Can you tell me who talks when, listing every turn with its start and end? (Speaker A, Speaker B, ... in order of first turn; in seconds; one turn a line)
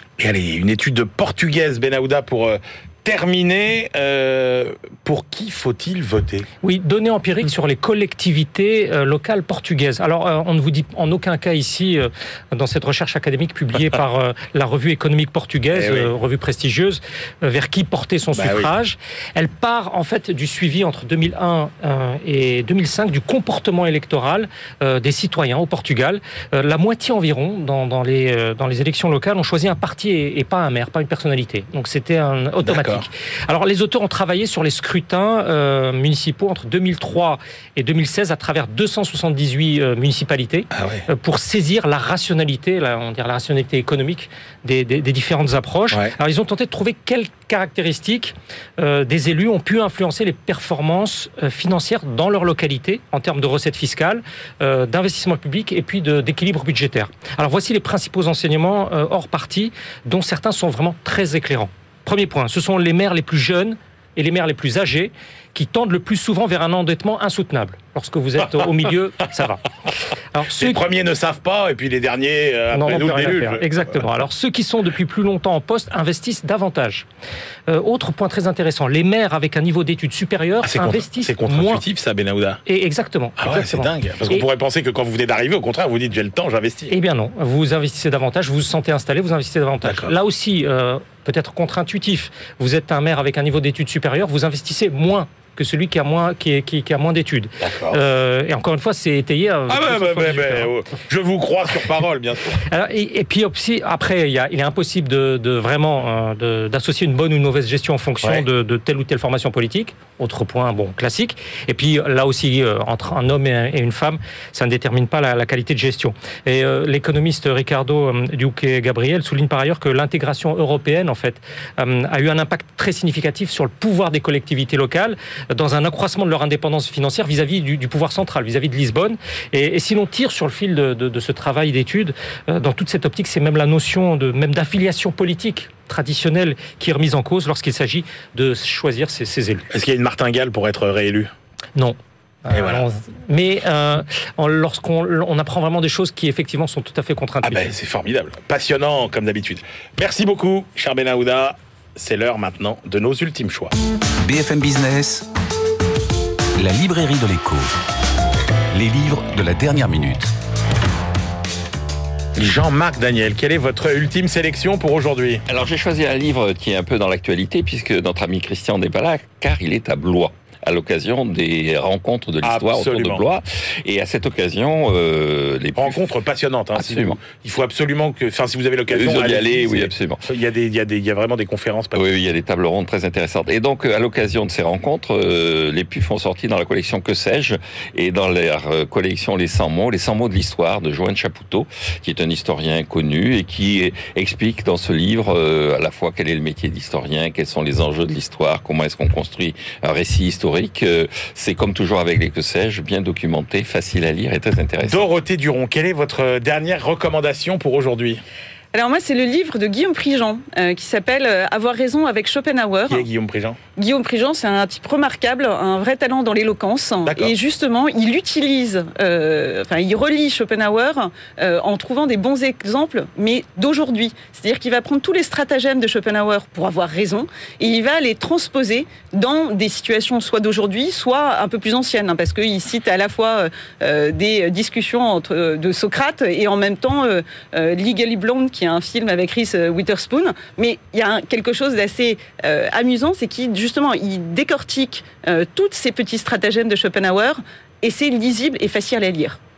Speaker A: 0.2-6.5
Speaker B: 6.6-69.7
Speaker A: 15.7-16.1
Speaker A: 18.3-18.7
Speaker A: 32.6-33.1
Speaker A: 40.7-41.1
Speaker A: 45.9-46.2
Speaker B: 70.3-70.8
Speaker A: 70.5-73.6
Speaker B: 72.7-77.1
Speaker B: 77.7-81.8
Speaker A: 80.6-82.6
Speaker B: 82.7-84.5
Speaker A: 83.4-86.9
Speaker B: 86.9-100.7
Speaker A: 89.8-90.1
Speaker A: 97.6-98.0
Speaker A: 99.7-102.6
Speaker B: 102.7-139.7
Speaker A: 139.7-141.3
Speaker B: 141.8-147.7
Speaker A: 142.5-142.8
Speaker A: 147.4-153.7
Speaker C: 154.2-155.3
Speaker C: 156.6-157.7
Speaker C: 158.7-160.3
Speaker A: 162.4-165.4
Speaker D: 165.5-176.1
Speaker A: 172.4-173.2
Speaker A: 175.8-182.0
Speaker D: 176.8-177.2
Speaker D: 178.9-180.2
Speaker D: 181.9-205.1
Speaker A: 204.9-208.2
Speaker E: 208.7-213.1
Speaker A: 212.9-213.6
Speaker E: 213.8-249.4
Speaker A: 217.1-217.3